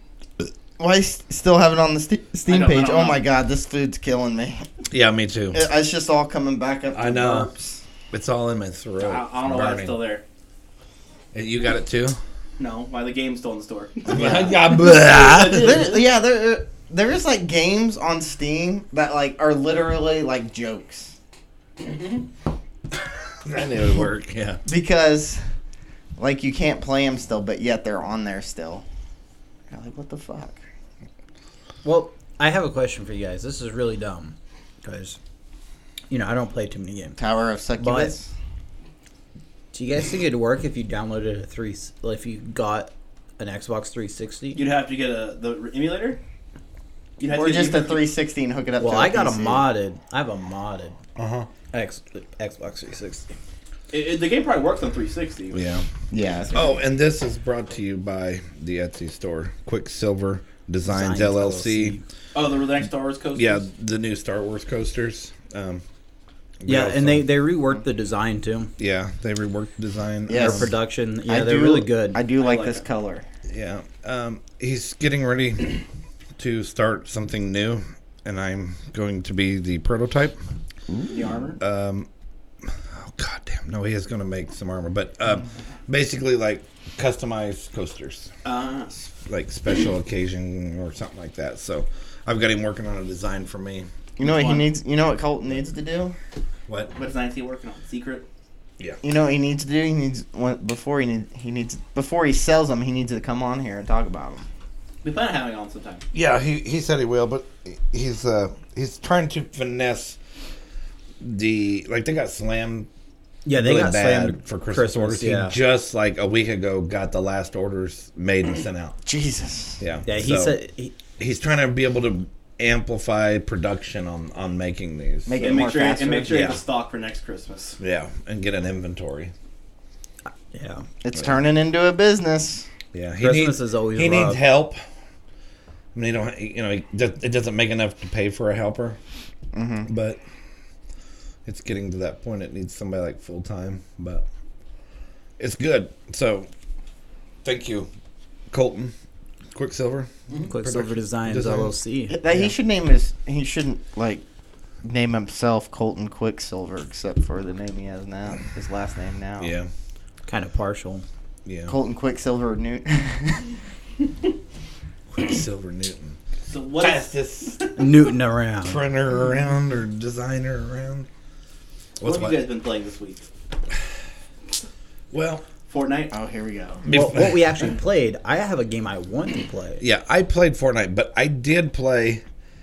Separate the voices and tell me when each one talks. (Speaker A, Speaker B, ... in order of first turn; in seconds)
Speaker A: 0.8-4.7, 5.5-7.8, 14.1-14.6, 15.5-21.1, 24.6-25.4, 26.2-28.8, 29.7-30.6, 37.2-38.3, 47.3-49.7, 56.1-56.8, 70.3-70.7, 71.2-73.2, 80.9-81.3, 94.2-96.1, 99.0-104.5, 119.0-119.8, 125.3-126.4, 131.0-132.7, 139.5-139.9, 152.1-154.2, 154.8-159.5, 161.7-163.4, 176.1-176.9
Speaker B: 2.5-3.2, 9.0-10.2, 12.6-16.1, 21.9-22.2, 44.5-46.2, 47.2-48.1, 53.9-55.6, 62.3-63.6, 72.4-72.8, 81.1-81.6, 88.4-89.0, 94.2-94.7, 96.9-98.2, 105.0-106.0, 125.4-127.8, 166.5-167.7, 172.0-173.2, 175.7-176.1
Speaker C: 4.9-5.7, 6.9-7.5, 8.1-10.0, 11.3-12.2, 14.1-15.8, 23.4-24.6, 51.1-51.5, 55.5-55.9, 56.5-62.0, 63.3-65.8, 66.6-67.3, 68.8-70.7, 73.5-75.8, 76.4-80.4, 81.6-82.1, 82.7-88.3, 89.2-93.9, 96.7-96.9, 106.1-110.2, 111.2-112.9, 113.5-119.0, 119.8-120.5, 121.2-125.6, 126.2-126.6, 127.8-129.3, 132.9-134.8, 135.9-139.0, 139.9-140.2, 141.4-144.2, 145.4-146.5, 147.4-147.9, 148.5-148.9, 149.5-151.7, 159.4-159.7, 161.4-161.7, 165.1-166.2, 166.8-167.6, 168.6-171.1, 172.0-172.4, 175.1-175.4, 176.9-177.7, 179.8-182.2
Speaker D: 31.8-35.2, 36.1-37.2, 37.8-38.1, 39.7-44.6, 48.8-50.9, 51.7-53.3, 60.9-62.0, 66.7-68.7, 70.3-72.2, 113.4-115.6, 120.0-120.9, 130.5-130.8, 133.2-134.4, 150.5-152.5, 160.3-161.0, 167.8-168.8, 176.9-179.8